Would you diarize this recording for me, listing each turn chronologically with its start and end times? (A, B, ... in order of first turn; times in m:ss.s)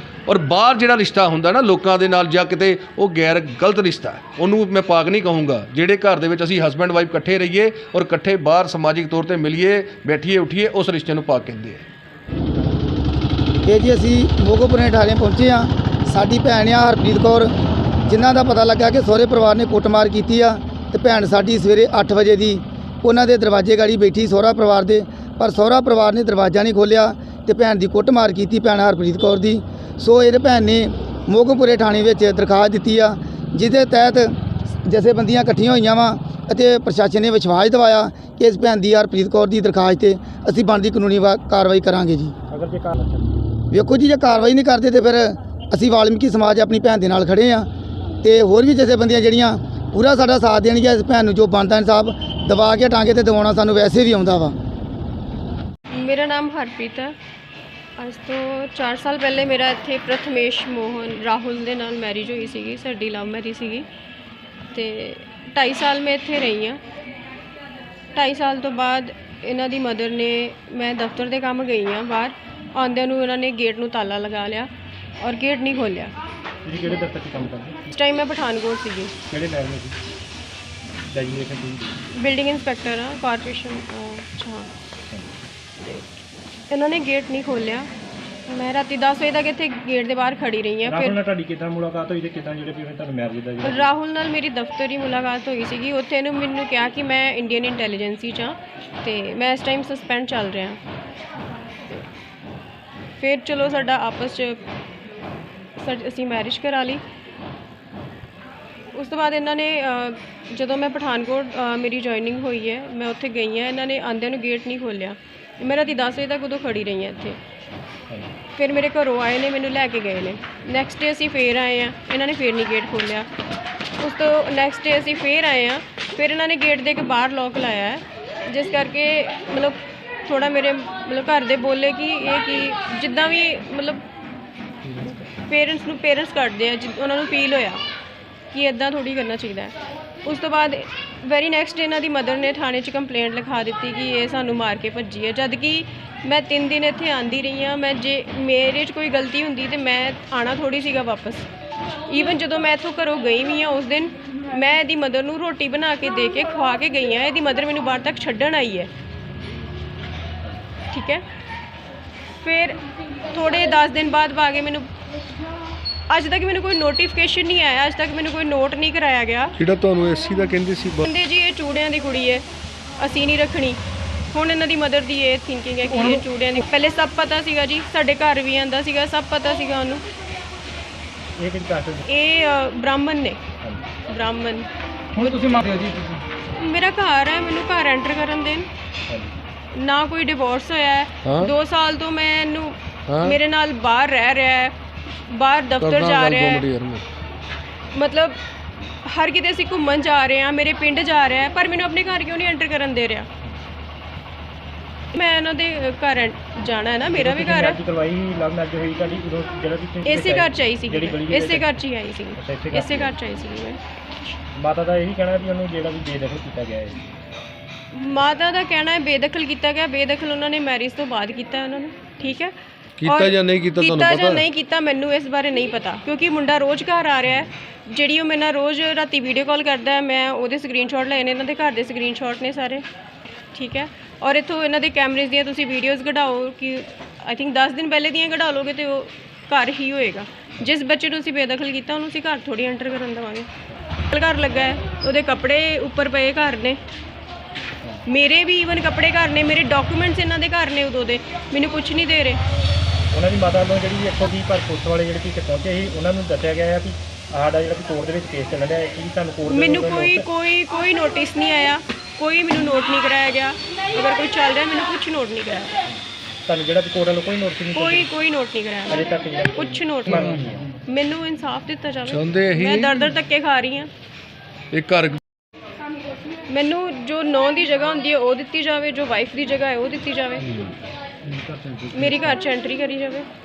0:00.3-0:11.8 A
0:13.6-0:17.5 B
0:18.1-0:42.4 B
0:42.5-0:43.3 C
0:43.7-0:47.7 B
0:48.2-0:54.5 B
0:55.9-0:57.2 D
0:58.0-1:03.9 D
1:04.7-1:06.8 D
1:08.2-1:16.1 D
1:16.6-1:17.8 C
1:17.9-1:19.1 D
1:19.3-1:20.0 C
1:21.1-1:22.0 C
1:22.1-1:24.7 D
1:26.7-1:27.9 D
1:28.5-1:31.2 D
1:30.8-1:33.9 C
1:33.6-1:40.8 D
1:43.2-1:44.6 D
1:45.8-1:47.0 D
1:48.9-1:57.4 D
1:58.6-2:03.3 D
2:04.0-2:14.0 D
2:14.9-2:15.2 C
2:15.4-2:17.8 D
2:18.5-2:31.5 D
2:32.1-2:38.9 D
2:40.9-2:41.2 D
2:42.4-2:44.9 D
2:46.1-2:49.6 D
2:49.6-2:51.0 A
2:51.0-2:52.4 D
2:53.0-2:53.8 D
2:54.3-3:00.0 D
3:01.4-3:02.0 C
3:02.0-3:03.4 D
3:04.0-3:05.7 D
3:06.5-3:08.7 D
3:09.1-3:09.4 C
3:09.7-3:16.6 D
3:11.2-3:11.5 A
3:13.1-3:13.4 A
3:15.8-3:17.0 A
3:17.9-3:18.4 D
3:19.0-3:23.3 D
3:25.1-3:27.8 D
3:27.1-3:31.7 C
3:30.0-3:33.8 D
3:32.4-3:33.1 C
3:34.6-3:37.1 C
3:37.9-3:42.5 D
3:43.0-3:44.4 A
3:43.1-3:52.8 D
3:53.5-4:03.5 D
4:04.1-4:06.8 D
4:08.1-4:12.4 D
4:13.1-4:20.3 C
4:19.5-4:25.8 D
4:26.5-4:28.1 C
4:27.7-4:33.9 D
4:28.9-4:30.7 C
4:32.1-4:33.0 A
4:34.7-4:35.2 A
4:36.5-4:40.6 D
4:41.2-4:42.4 C
4:41.9-4:43.3 D